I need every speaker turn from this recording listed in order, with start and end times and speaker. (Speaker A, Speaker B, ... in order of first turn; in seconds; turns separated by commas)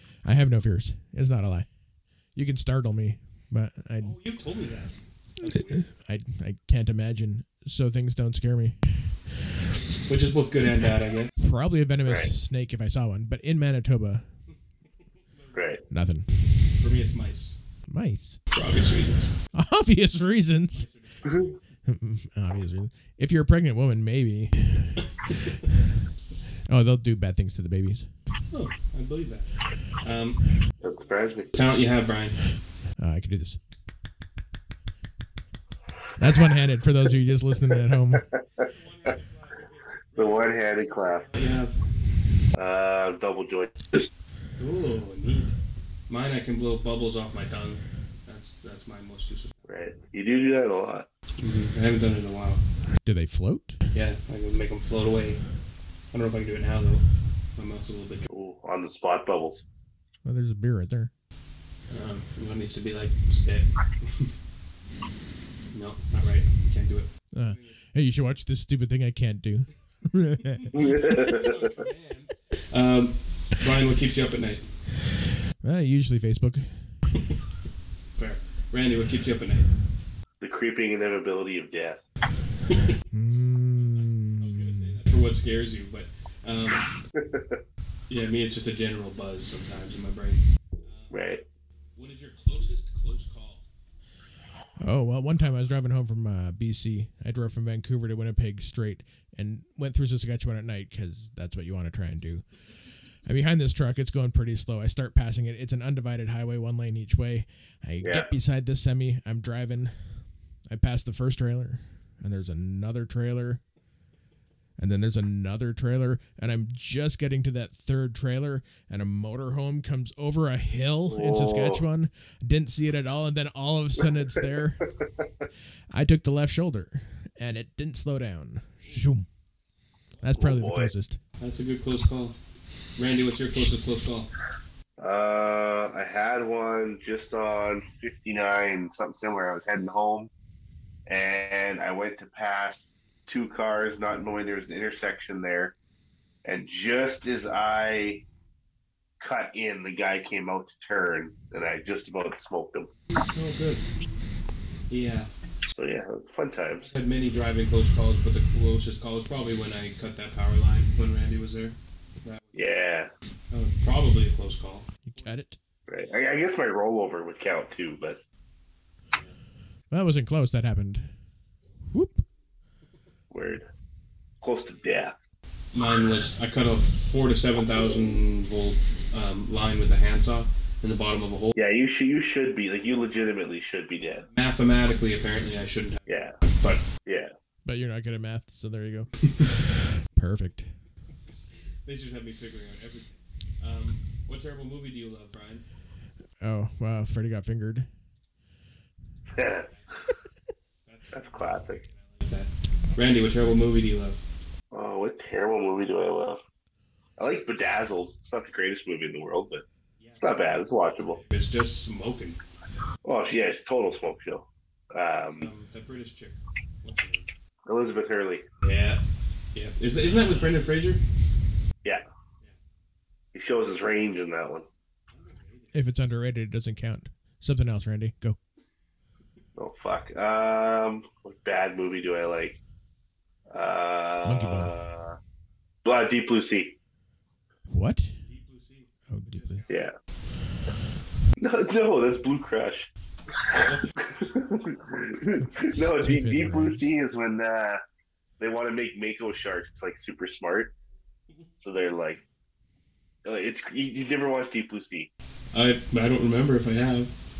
Speaker A: 0.2-1.7, Speaker A: 2.4-4.2, Speaker B: 4.0-5.8, Speaker A: 5.4-8.8, Speaker B: 10.1-11.3, Speaker A: 11.4-14.2, Speaker C: 12.1-12.3, Speaker B: 15.3-15.8, Speaker C: 15.5-15.8, Speaker A: 15.9-16.3, Speaker B: 16.8-17.6, Speaker A: 17.9-18.4, Speaker B: 18.5-19.3, Speaker A: 19.5-20.9, Speaker B: 20.7-21.6, Speaker A: 21.9-24.9, Speaker A: 26.7-28.1, Speaker B: 28.5-32.4, Speaker C: 30.8-31.6, Speaker A: 33.0-33.6, Speaker A: 36.2-38.2, Speaker C: 38.3-38.6, Speaker B: 38.6-41.8, Speaker C: 40.1-41.3, Speaker C: 42.5-44.1, Speaker B: 44.6-45.5, Speaker B: 46.1-49.8, Speaker C: 49.7-51.0, Speaker B: 51.4-52.6, Speaker A: 53.0-53.8, Speaker B: 53.9-55.4, Speaker B: 56.1-57.0, Speaker B: 57.5-58.3, Speaker C: 58.3-59.6, Speaker A: 60.2-61.1, Speaker B: 61.9-64.3, Speaker B: 65.7-67.8, Speaker A: 67.3-70.9, Speaker B: 70.4-74.7, Speaker C: 70.7-71.6, Speaker A: 75.6-76.7, Speaker B: 78.1-79.7, Speaker C: 80.4-82.0, Speaker A: 83.1-85.0, Speaker B: 83.7-86.9, Speaker C: 87.1-87.6, Speaker B: 88.1-91.4, Speaker C: 91.1-91.4, Speaker B: 92.0-93.6, Speaker A: 94.8-102.4, Speaker A: 103.2-113.6, Speaker C: 108.0-108.3, Speaker A: 114.8-124.8, Speaker C: 121.1-121.8, Speaker A: 125.9-129.2, Speaker A: 130.2-131.2, Speaker C: 130.3-130.9, Speaker B: 131.4-132.4, Speaker B: 132.9-134.3, Speaker C: 135.0-140.3, Speaker C: 141.1-145.7, Speaker C: 146.4-148.2, Speaker C: 149.2-152.9, Speaker B: 153.3-153.8, Speaker B: 154.9-155.3, Speaker C: 155.7-156.9, Speaker B: 156.8-162.8, Speaker C: 162.5-163.1, Speaker B: 163.5-165.4, Speaker A: 165.0-165.6, Speaker C: 165.9-168.2, Speaker A: 169.9-171.1, Speaker A: 171.9-172.2, Speaker C: 173.3-173.7, Speaker C: 174.4-175.1, Speaker B: 175.7-181.6, Speaker C: 181.5-184.3, Speaker B: 184.3-186.8, Speaker C: 186.1-186.4, Speaker C: 187.0-187.3, Speaker A: 187.6-189.2, Speaker A: 190.1-190.7, Speaker B: 191.8-195.6, Speaker A: 196.4-197.9, Speaker C: 199.3-199.7, Speaker B: 199.4-200.1, Speaker B: 200.8-204.2, Speaker C: 201.1-201.8, Speaker C: 204.7-206.4, Speaker C: 207.2-209.6, Speaker B: 210.0-210.3, Speaker C: 210.2-211.2, Speaker B: 211.0-212.4, Speaker C: 213.0-215.5, Speaker B: 215.3-217.3, Speaker C: 217.7-218.4, Speaker B: 218.6-219.0, Speaker B: 219.5-221.0, Speaker C: 223.3-224.7, Speaker B: 225.1-225.8, Speaker A: 225.7-228.4, Speaker C: 229.6-232.6, Speaker C: 233.5-235.2, Speaker A: 234.2-234.8, Speaker C: 235.8-236.7, Speaker A: 237.7-238.1, Speaker B: 238.2-239.9, Speaker A: 239.1-239.6, Speaker C: 239.7-239.9, Speaker C: 241.4-242.9, Speaker B: 243.5-243.9, Speaker C: 244.0-247.8, Speaker A: 245.5-246.9, Speaker C: 248.4-250.7, Speaker C: 251.6-252.2, Speaker C: 253.2-255.1, Speaker B: 255.5-257.1